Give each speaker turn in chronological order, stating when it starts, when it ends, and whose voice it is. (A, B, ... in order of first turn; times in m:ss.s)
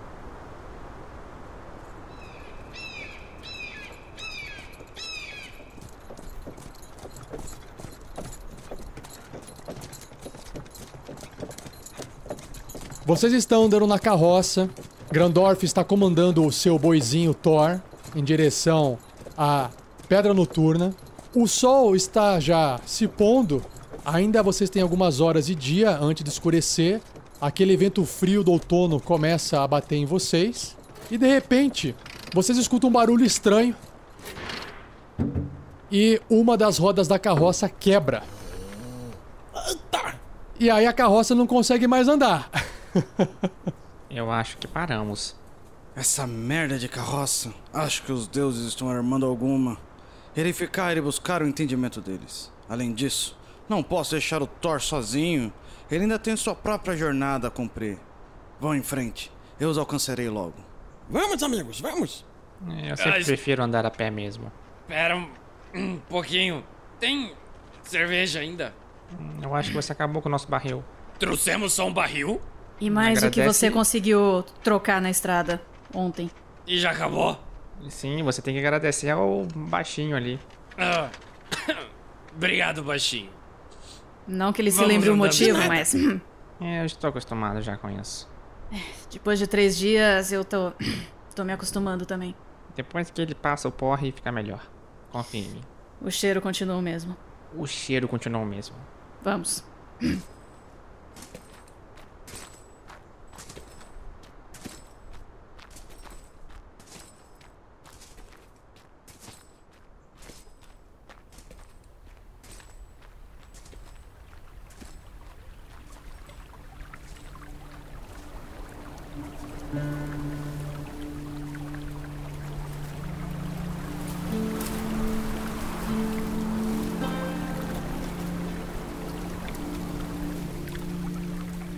0:13.0-0:33.8 A
0:35.9-0:38.3 A
0:39.6-0:40.2 B
0:40.6-0:43.5 A
0:44.1-0:45.4 C
0:46.0-0:49.8 D
0:50.4-0:58.0 D
0:58.6-1:00.7 D
1:01.1-1:02.2 B
1:02.6-1:04.5 C
1:03.0-1:03.3 E
1:04.9-1:08.7 E
1:09.1-1:10.9 C
1:11.2-1:12.4 E
1:12.8-1:16.3 F
1:12.9-1:13.8 C
1:16.7-1:17.4 E
1:17.8-1:20.4 C
1:20.8-1:21.1 E
1:22.3-1:23.4 E
1:24.3-1:26.2 F
1:24.7-1:25.9 E
1:25.2-1:25.7 B
1:26.6-1:28.3 C
1:28.7-1:32.4 F
1:32.7-1:35.7 C
1:36.0-1:37.2 F
1:37.5-1:38.9 C
1:39.2-1:40.2 F